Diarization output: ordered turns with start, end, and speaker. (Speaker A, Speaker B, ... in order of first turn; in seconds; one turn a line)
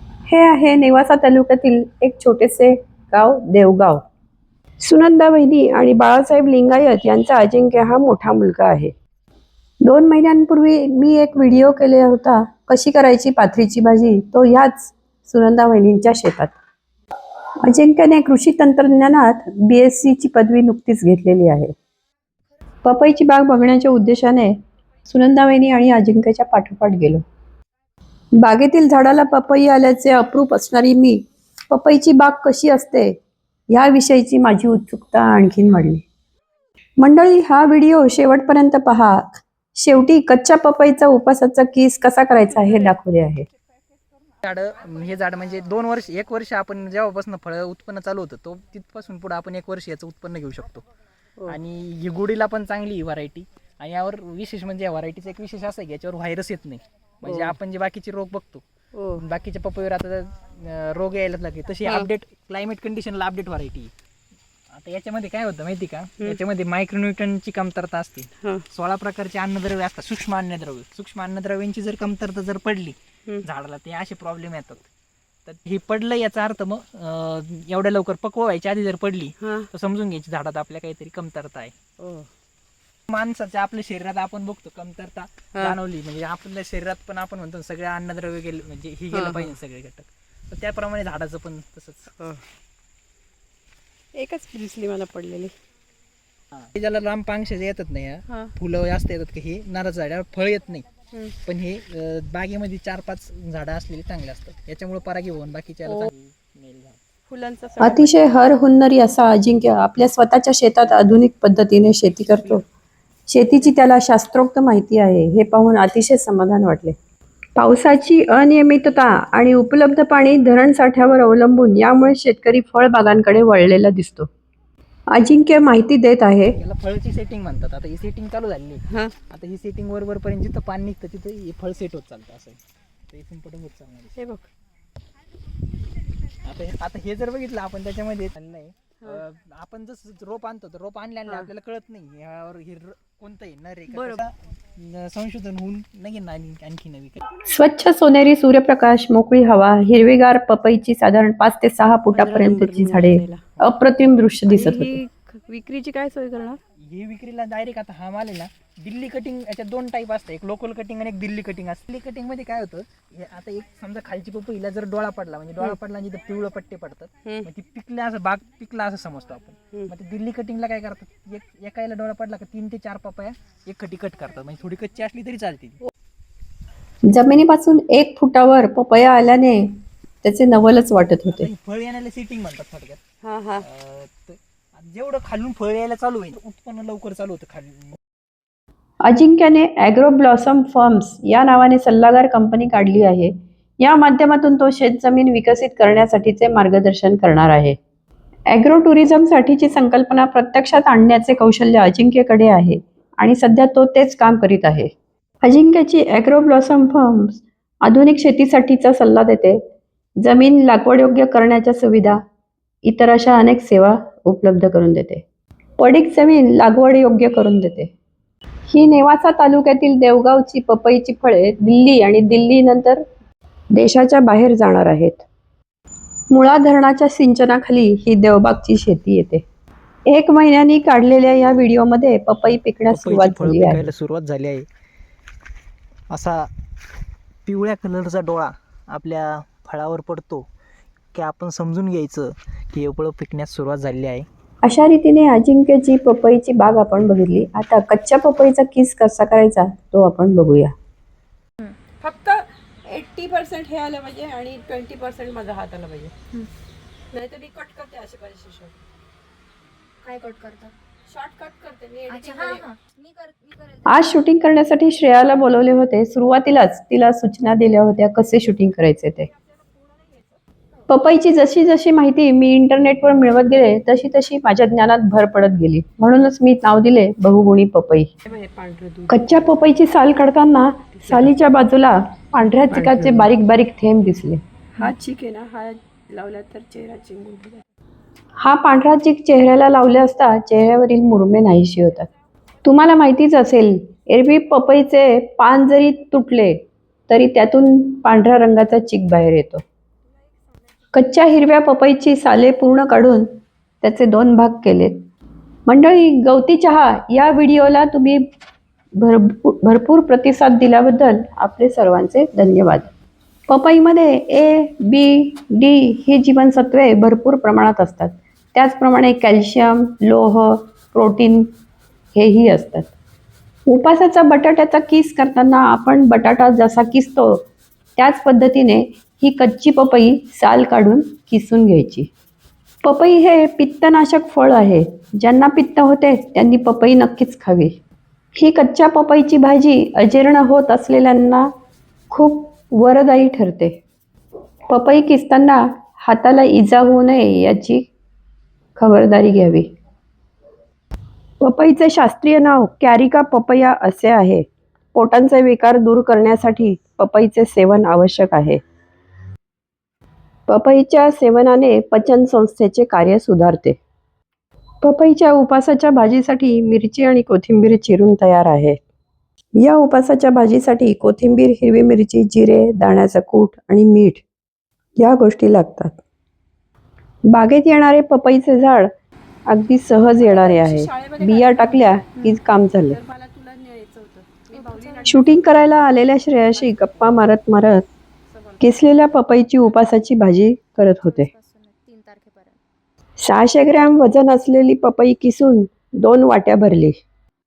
Speaker A: 0.3-4.0
Speaker A: 4.8-8.9
Speaker A: 9.8-16.6
Speaker A: 17.6-21.7
Speaker A: 22.8-27.2
Speaker A: 28.4-33.1
Speaker A: 33.7-36.0
Speaker A: 37.0-43.5
Speaker B: 44.4-50.8
Speaker B: 51.5-63.9
Speaker C: 57.2-57.6
Speaker C: 58.9-59.2
Speaker B: 64.7-74.8
Speaker C: 68.4-68.7
Speaker B: 75.4-81.7
Speaker C: 79.4-79.7
Speaker C: 82.0-82.3
Speaker B: 83.1-92.2
Speaker C: 89.1-89.5
Speaker C: 92.2-92.4
Speaker C: 94.1-95.5
Speaker B: 96.5-100.8
Speaker B: 101.4-107.0
Speaker C: 107.3-108.1
Speaker A: 107.8-112.6
Speaker A: 113.3-117.0
Speaker A: 117.5-124.3
Speaker A: 125.1-126.6
Speaker B: 126.5-132.6
Speaker C: 128.9-129.2
Speaker B: 133.1-134.2
Speaker C: 134.2-134.5
Speaker B: 136.4-147.2
Speaker C: 143.9-144.2
Speaker A: 147.4-155.0
Speaker C: 152.1-153.4
Speaker C: 154.5-156.6
Speaker B: 156.8-175.8
Speaker A: 177.1-179.7
Speaker A: 180.2-181.5
Speaker B: 181.3-183.0
Speaker C: 183.2-183.7
Speaker B: 183.6-188.0
Speaker A: 189.0-197.8
Speaker A: 198.5-209.6
Speaker A: 210.2-212.2
Speaker A: 212.8-215.2
Speaker A: 215.8-217.9
Speaker A: 218.7-223.0
Speaker A: 223.7-225.2
Speaker A: 226.3-229.4
Speaker A: 230.1-233.9
Speaker B: 232.9-234.7
Speaker B: 236.1-236.5
Speaker B: 237.4-240.5
Speaker B: 241.1-244.2
Speaker A: 244.6-250.7
Speaker C: 251.9-256.1
Speaker C: 257.1-258.8
Speaker D: 260.0-260.7
Speaker C: 261.1-262.6
Speaker D: 262.1-264.2
Speaker A: 263.9-269.3
Speaker A: 270.9-278.1
Speaker C: 278.2-279.6
Speaker A: 279.1-284.9
Speaker C: 280.9-281.3
Speaker C: 282.7-283.3
Speaker C: 284.8-287.6
Speaker A: 288.4-292.1
Speaker A: 292.6-299.6
Speaker A: 300.9-303.3
Speaker A: 303.8-305.1
Speaker A: 305.7-308.2
Speaker A: 309.0-312.9
Speaker A: 313.5-321.5
Speaker A: 322.1-322.9
Speaker A: 323.7-332.1
Speaker A: 332.8-337.8
Speaker A: 338.4-341.5
Speaker A: 342.1-343.8
Speaker A: 344.7-347.9
Speaker A: 348.8-349.7
Speaker A: 351.4-358.6
Speaker A: 360.5-363.8
Speaker A: 364.8-368.8
Speaker A: 369.6-374.2
Speaker A: 375.0-376.0
Speaker A: 377.3-378.9
Speaker A: 379.5-383.0
Speaker C: 380.2-382.2
Speaker C: 382.9-385.5
Speaker D: 384.5-385.3
Speaker A: 385.1-387.8
Speaker C: 386.4-387.1
Speaker C: 388.3-388.7
Speaker A: 388.6-391.3
Speaker D: 391.0-392.6
Speaker A: 393.2-397.0